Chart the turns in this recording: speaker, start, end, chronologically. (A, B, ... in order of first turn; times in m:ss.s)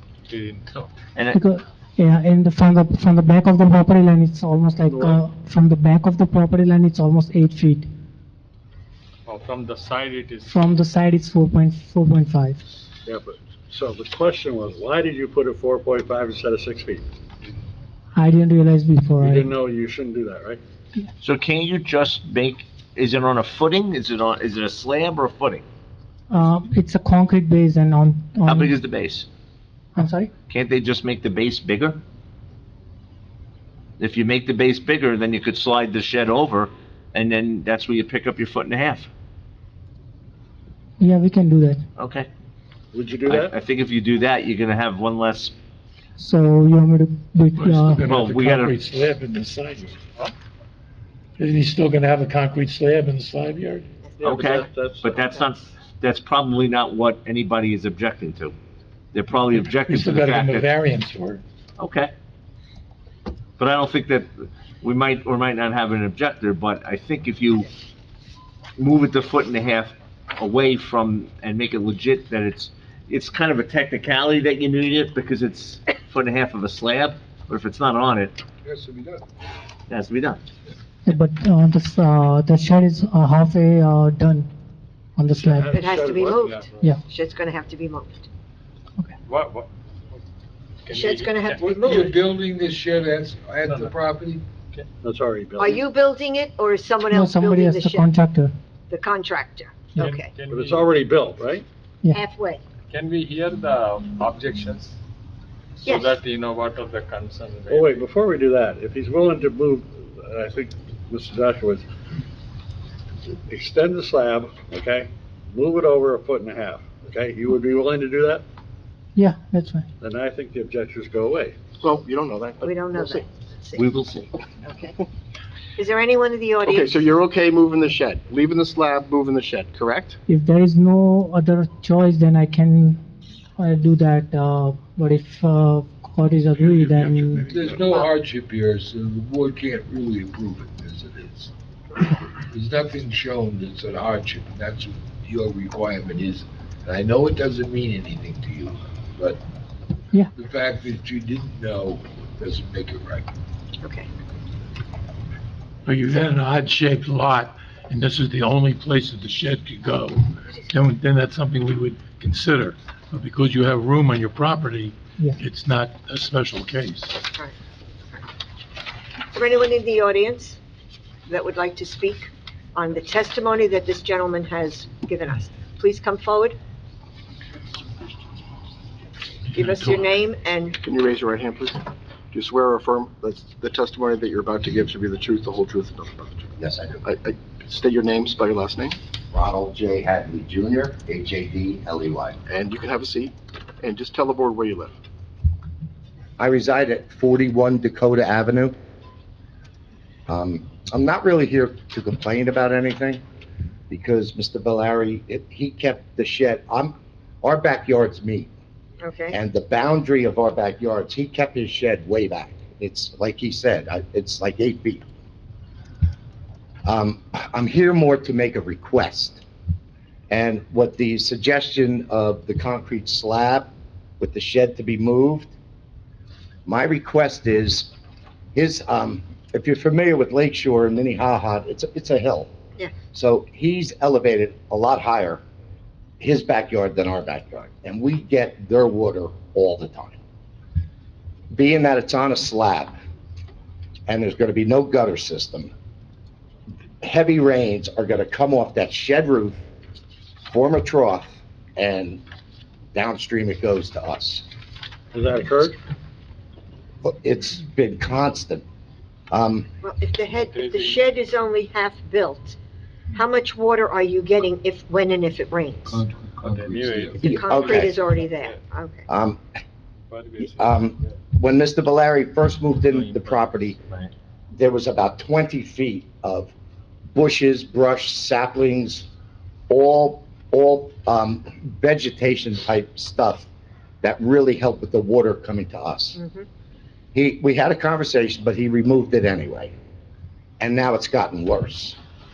0:00.3-0:00.9 A
0:01.3-0:07.9 B
0:04.9-0:05.2 C
0:09.2-0:10.5 A
0:10.4-0:12.6 B
0:13.0-0:17.0 C
0:18.1-0:19.5 B
0:19.2-0:20.6 C
0:21.2-0:25.6 D
0:26.3-0:28.8 B
0:28.4-0:29.2 D
0:29.9-0:30.3 B
0:30.5-0:32.0 D
0:34.0-0:39.1 D
0:41.0-0:41.8 B
0:42.0-0:42.3 D
0:42.9-0:43.5 C
0:43.2-0:45.5 D
0:46.2-0:48.0 B
0:47.6-0:50.0 E
0:48.0-0:48.7 D
0:51.4-0:53.9 E
0:54.2-0:55.4 C
0:54.2-0:58.5 D
0:59.1-1:00.7 D
0:59.5-1:01.4 E
1:01.8-1:02.1 D
1:03.6-1:07.7 D
1:08.8-1:18.4 D
1:18.6-1:19.2 F
1:19.9-1:20.4 D
1:21.0-1:24.5 B
1:25.2-1:25.8 B
1:25.3-1:26.4 C
1:25.7-1:28.3 G
1:26.2-1:26.9 A
1:29.2-1:29.7 A
1:30.8-1:31.7 A
1:30.9-1:32.1 G
1:31.5-1:34.4 F
1:33.6-1:33.9 A
1:35.0-1:35.8 C
1:35.6-1:38.1 G
1:37.1-1:38.5 B
1:38.9-1:40.3 G
1:40.0-1:41.0 A
1:40.5-1:41.6 C
1:42.1-1:42.6 G
1:42.9-1:44.9 A
1:45.8-1:48.1 A
1:45.8-1:46.2 G
1:47.7-1:51.8 C
1:53.5-1:58.4 C
1:59.2-1:59.9 B
2:00.0-2:01.6 C
2:01.8-2:03.2 H
2:02.6-2:03.9 G
2:03.8-2:04.3 D
2:04.6-2:04.9 G
2:05.8-2:07.0 G
2:06.6-2:10.2 H
2:10.3-2:13.0 B
2:13.6-2:17.4 B
2:16.5-2:18.0 E
2:17.5-2:21.5 F
2:22.5-2:29.4 F
2:30.3-2:33.3 F
2:33.8-2:34.1 G
2:35.8-2:47.2 E
2:49.3-2:50.6 G
2:51.3-2:56.6 G
2:59.5-3:00.8 G
2:59.5-3:00.0 E
3:00.8-3:09.0 H
3:06.6-3:07.0 I
3:09.3-3:12.4 I
3:12.5-3:15.0 H
3:16.4-3:18.7 I
3:20.3-3:23.2 I
3:23.9-3:28.5 I
3:29.0-3:29.4 G
3:29.3-3:35.0 I
3:36.8-3:39.4 I
3:40.3-3:45.5 I
3:46.6-3:47.9 I
3:48.5-3:52.5 I
3:53.1-3:55.4 I
3:56.2-4:00.2 I
4:01.5-4:02.9 I
4:04.1-4:05.7 I
4:07.0-4:09.6 I
4:10.5-4:12.2 I
4:12.9-4:14.4 I
4:15.1-4:15.8 C
4:17.0-4:18.6 I
4:19.3-4:19.7 I
4:19.8-4:22.6 G
4:20.3-4:21.0 A
4:23.1-4:26.0 G
4:25.8-4:27.2 F
4:26.5-4:28.6 A
4:27.2-4:28.0 I
4:27.2-4:29.1 G
4:29.1-4:29.4 I
4:30.1-4:31.1 A
4:30.4-4:33.8 I
4:32.8-4:34.1 A
4:34.5-4:36.5 I
4:37.1-4:39.1 I
4:39.7-4:43.5 I
4:44.0-4:46.2 I
4:46.2-4:46.4 G
4:47.1-4:49.7 I
4:50.6-4:52.0 I